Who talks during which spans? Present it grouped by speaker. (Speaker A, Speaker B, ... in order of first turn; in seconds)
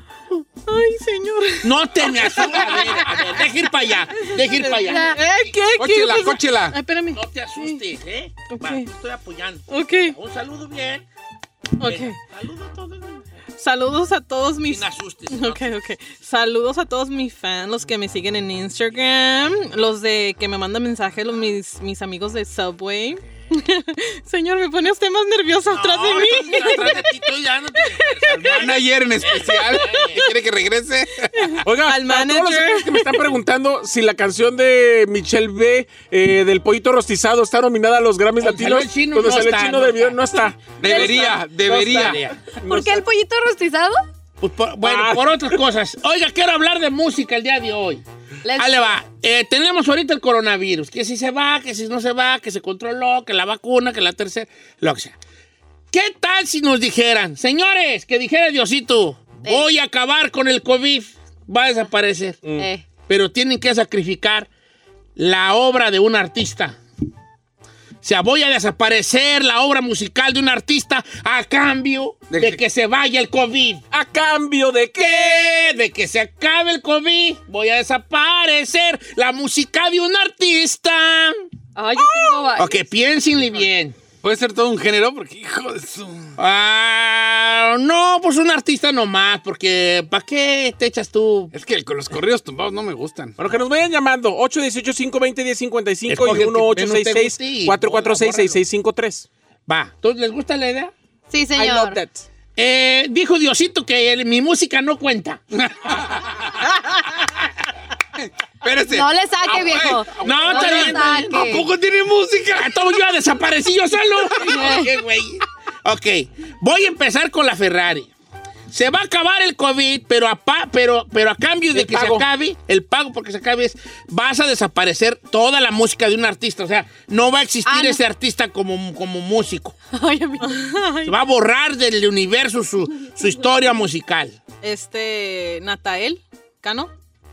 Speaker A: 0.7-7.8, 8.5-8.9, 9.7-10.2, 11.8-12.2, 13.6-28.8, 29.4-30.1, 31.4-33.4, 130.4-131.2, 134.6-136.9
Speaker B: 1.6-5.8, 7.1-11.1, 11.8-13.2, 14.7-15.8, 25.7-30.3, 38.4-40.2, 40.9-42.3, 44.4-48.0, 48.6-55.2, 55.9-62.4, 63.1-64.5, 65.2-66.8, 68.0-73.8, 75.0-81.4, 82.6-84.0, 86.4-91.5, 96.1-98.6, 99.7-100.9, 102.6-106.1, 110.2-111.5, 112.6-118.1, 118.7-129.8, 131.1-134.4
Speaker C: 4.9-5.1, 40.9-41.4, 42.6-44.0, 48.4-49.0, 62.6-62.8, 81.8-82.8, 101.3-102.0, 108.9-111.7, 114.4-114.9, 127.7-128.0, 129.9-130.6
Speaker D: 5.8-6.8, 28.3-31.6, 40.8-42.2, 72.3-72.6, 84.2-86.3, 91.5-93.4, 105.9-106.5, 108.2-113.0
Speaker E: 31.6-43.0, 44.8-45.5, 62.4-62.7, 73.9-75.7, 82.0-82.5, 93.4-99.3, 101.5-102.2, 121.7-122.2